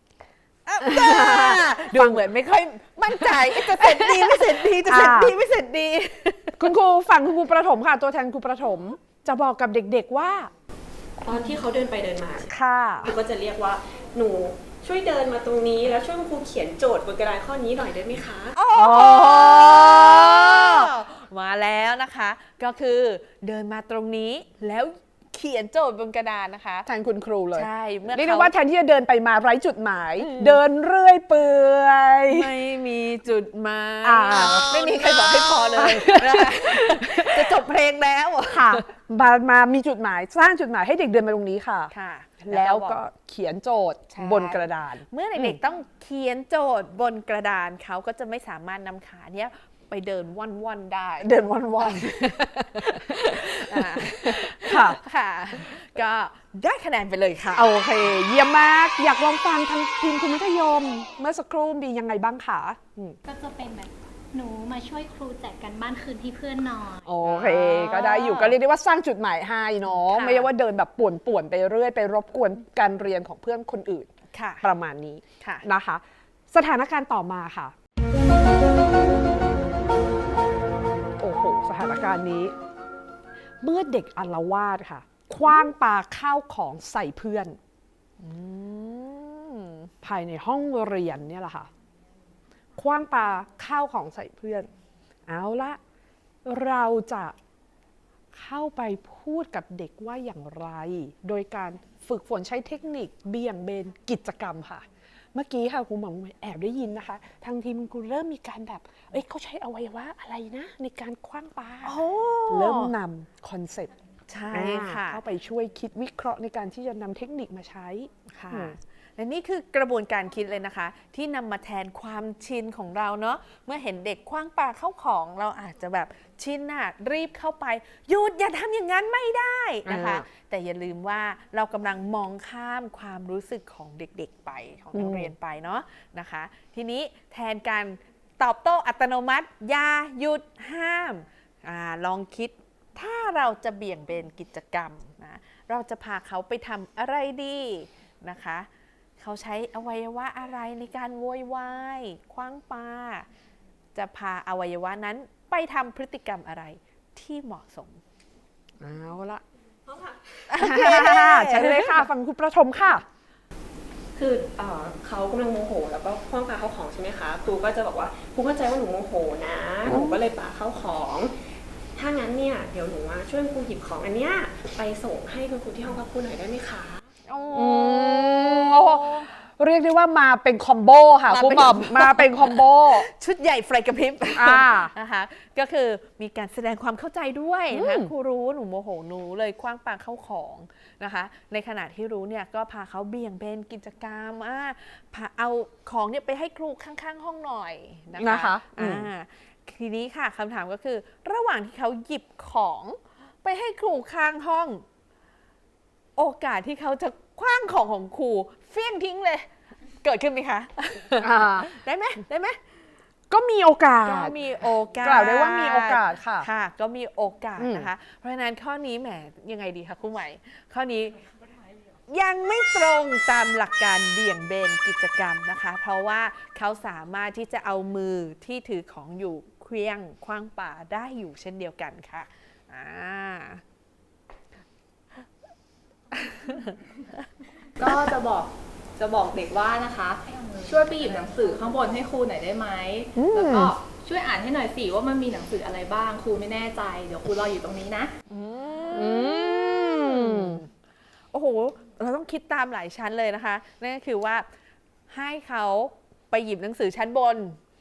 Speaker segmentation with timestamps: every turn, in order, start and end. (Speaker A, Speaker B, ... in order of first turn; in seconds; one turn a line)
Speaker A: 0.7-6.7
Speaker B: 0.8-2.2
Speaker B: 3.1-5.3
Speaker B: 6.6-10.5
Speaker C: 11.2-18.6
Speaker B: 12.5-13.2
Speaker A: 18.6-26.9
Speaker B: 18.7-20.9
Speaker B: 26.9-32.5
Speaker A: 27.5-28.5
Speaker A: 30.2-30.6
Speaker A: 32.3-38.9
Speaker B: 34.0-37.6
Speaker B: 38.5-45.6
Speaker A: 41.9-43.0
Speaker A: 44.1-57.7
Speaker B: 51.2-55.0
Speaker B: 57.5-63.2
Speaker D: 63.2-67.1
Speaker B: 67.0-74.1
Speaker A: 67.2-68.6
Speaker A: 70.0-70.5
Speaker A: 74.3-74.7
Speaker B: 74.6-77.7
Speaker B: 81.2-82.5
Speaker B: 83.6-87.6
Speaker A: 85.4-85.7
Speaker A: 88.2-89.9
Speaker B: 90.0-91.7
Speaker B: 92.8-94.7
Speaker B: 95.3-95.8
Speaker B: 96.5-97.4
Speaker B: 98.3-113.9
Speaker A: 111.8-112.9
Speaker A: 114.3-115.2
Speaker B: 114.5-118.8
Speaker A: 118.3-153.3
Speaker B: 129.9-130.3
Speaker B: 134.9-135.3
Speaker A: 153.9-158.0
Speaker B: 158.8-159.4
Speaker C: 159.9-160.2
Speaker A: 160.5-162.1
Speaker B: 160.6-163.1
Speaker C: 164.2-171.3
Speaker B: 169.9-170.2
Speaker C: 171.9-177.1
Speaker A: 177.3-179.3
Speaker B: 177.5-183.1
Speaker A: 181.3-204.8
Speaker B: 184.3-184.9
Speaker B: 187.7-188.1
Speaker B: 198.2-199.1
Speaker A: 206.2-209.5
Speaker A: 210.0-212.6
Speaker B: 211.2-211.8
Speaker B: 213.3-214.4
Speaker A: 214.1-221.2
Speaker B: 215.0-216.5
Speaker B: 217.6-217.9
Speaker A: 222.1-233.6
Speaker E: 237.8-248.1
Speaker B: 243.2-243.8
Speaker A: 248.3-250.7
Speaker B: 248.9-250.6
Speaker A: 251.3-254.5
Speaker A: 255.1-257.6